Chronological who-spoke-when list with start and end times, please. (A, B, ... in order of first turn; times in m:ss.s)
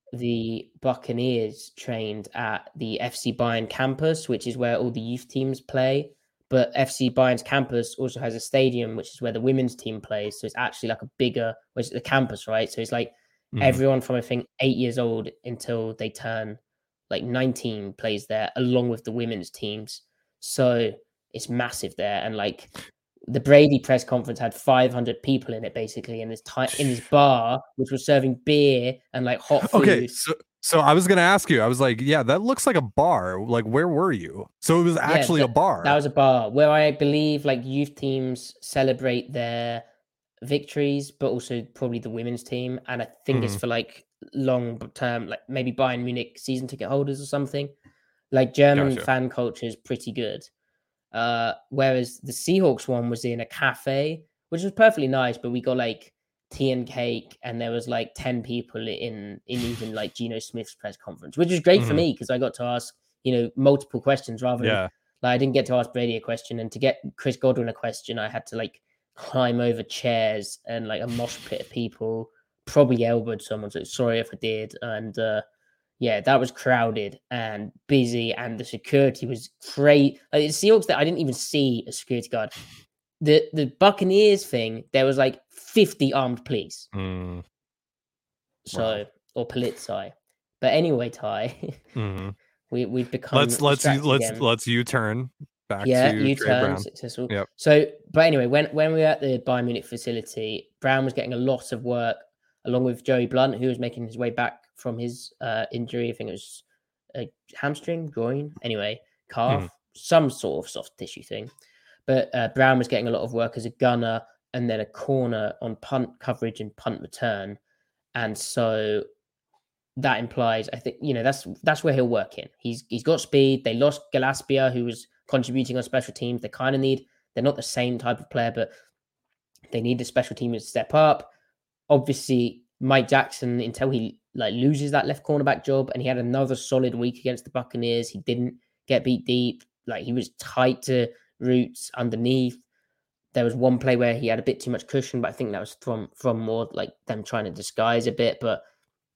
0:00.1-0:16.6 A
0:13.5-0:13.8 B
0:17.1-0:22.7 A
0:23.3-0:30.2 A
0:29.6-0:36.0 B
0:35.0-0:39.8 A
0:40.4-0:47.7 A
0:43.3-0:43.6 B
0:48.3-0:50.5 A
0:48.7-0:49.1 B
0:51.1-1:15.4 A
1:01.8-1:02.0 B
1:04.6-1:04.9 B
1:16.0-1:22.5 A
1:23.2-1:26.9 A
1:26.9-1:27.4 B
1:28.7-1:31.8 A
1:28.7-1:29.0 B
1:32.0-1:32.4 B
1:32.7-1:34.5 A
1:33.3-1:37.5 B
1:35.8-1:51.5 A
1:52.1-1:57.6 A
1:58.2-1:59.0 A
2:00.0-2:08.7 A
2:09.7-2:11.3 A
2:11.9-2:22.6 A
2:23.3-2:28.6 A